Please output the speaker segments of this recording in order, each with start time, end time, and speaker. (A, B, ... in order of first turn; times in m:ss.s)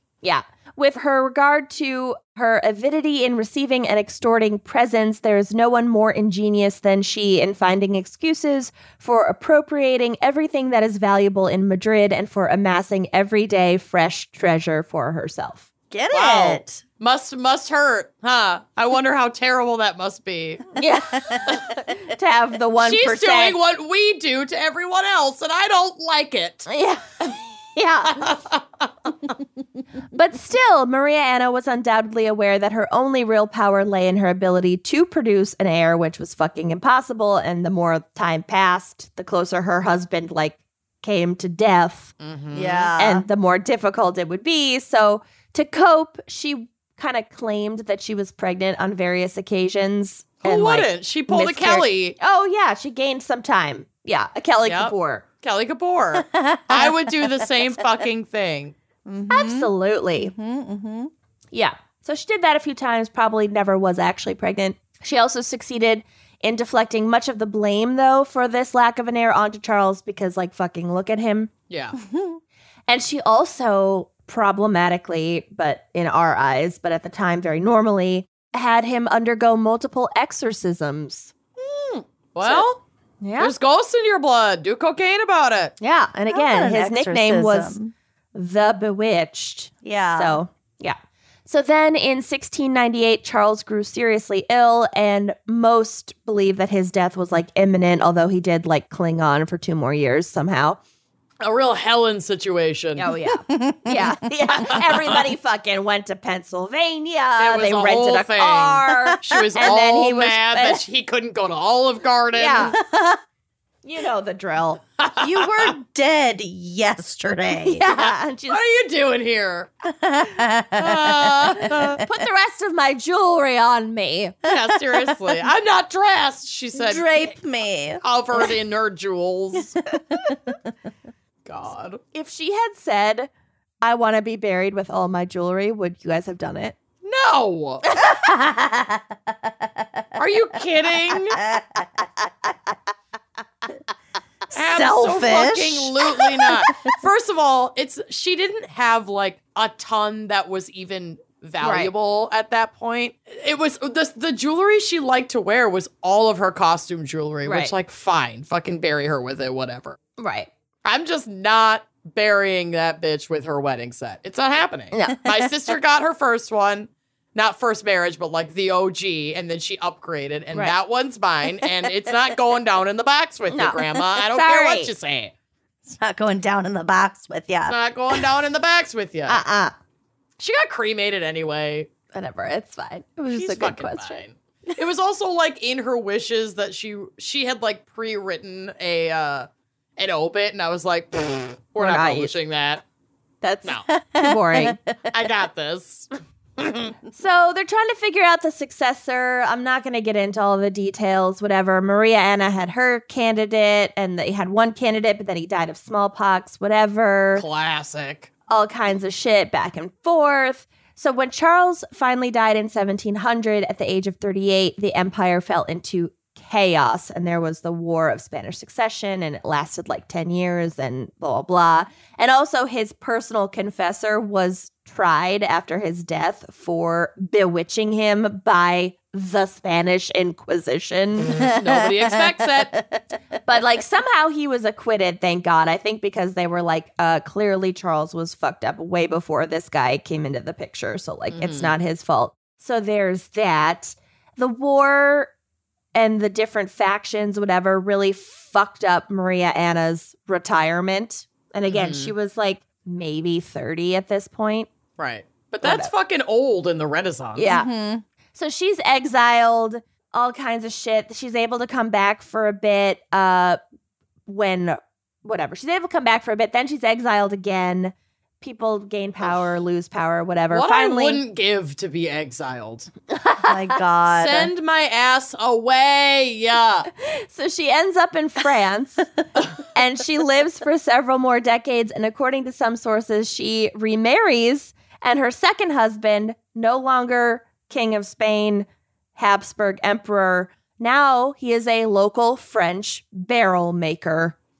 0:00.2-0:15.7 A
0:15.9-0:16.8 B
0:16.1-0:20.7 C
0:20.8-0:23.6 A
0:21.1-0:21.8 B
0:22.8-0:26.7 C
0:26.7-0:28.2 A
0:28.1-0:28.9 C
0:30.1-0:42.1 A
0:42.2-0:42.9 C
0:42.5-0:43.2 B
0:43.0-0:55.2 A
0:50.4-0:52.2 C
0:54.6-0:58.8 C
0:56.1-0:57.5 B
0:59.1-1:01.1 B
0:59.3-1:00.3 A
1:01.5-1:11.5 A
1:11.7-1:12.0 C
1:12.0-1:12.4 B
1:12.9-1:21.3 A
1:21.6-1:22.8 C
1:23.2-1:23.5 A
1:23.4-1:25.7 C
1:25.8-1:27.8 A
1:26.3-1:27.9 B
1:28.3-1:40.8 A
1:29.8-1:30.4 B
1:41.4-1:43.1 C
1:43.0-1:50.8 A
1:43.3-1:44.7 B
1:44.6-1:45.2 C
1:47.4-1:52.8 C
1:52.3-1:52.8 A
1:52.7-1:53.2 B
1:53.8-1:54.8 A
1:55.0-1:55.7 C
1:55.2-1:57.8 B
1:57.6-1:58.6 A
1:57.9-1:59.7 C
1:59.9-2:02.0 B
2:00.8-2:02.0 C
2:01.7-2:04.4 A
2:04.4-2:07.3 C
2:04.5-2:05.1 B
2:06.8-2:08.0 B
2:08.0-2:09.8 C
2:09.9-2:10.6 B
2:11.4-2:12.0 C
2:12.1-2:13.3 A
2:13.8-2:16.8 A
2:17.0-2:17.9 C
2:18.1-2:20.0 B
2:20.1-2:21.4 C
2:21.1-2:22.1 B
2:24.5-2:26.9 B
2:24.5-2:40.0 C
2:31.6-2:31.9 A
2:37.4-2:37.7 A
2:40.2-2:40.5 A
2:40.8-2:55.3 C
2:44.9-2:45.2 A
2:53.5-2:54.9 A
2:55.9-2:58.2 B
2:57.7-2:59.4 C
2:59.3-2:59.8 A
3:00.4-3:01.9 C
3:02.1-3:04.2 A
3:03.3-3:12.8 C
3:11.8-3:12.4 A
3:13.4-3:14.8 A
3:13.9-3:15.1 B
3:15.1-3:16.9 C
3:17.1-3:27.4 A
3:27.4-3:28.3 C
3:28.5-3:51.5 A
3:51.3-3:52.8 C
3:51.3-3:53.0 B
3:53.4-4:05.3 A
4:01.3-4:01.7 C
4:05.9-4:14.7 A
4:11.7-4:12.1 C
4:15.0-4:17.5 C
4:15.6-4:15.9 A
4:17.4-4:17.7 A
4:17.5-4:18.0 B
4:18.3-4:23.6 A
4:24.2-4:31.2 A
4:30.5-4:32.9 C
4:33.1-4:33.8 A
4:33.4-4:34.5 B
4:34.0-4:36.9 C
4:37.0-4:39.1 A
4:39.6-4:54.4 A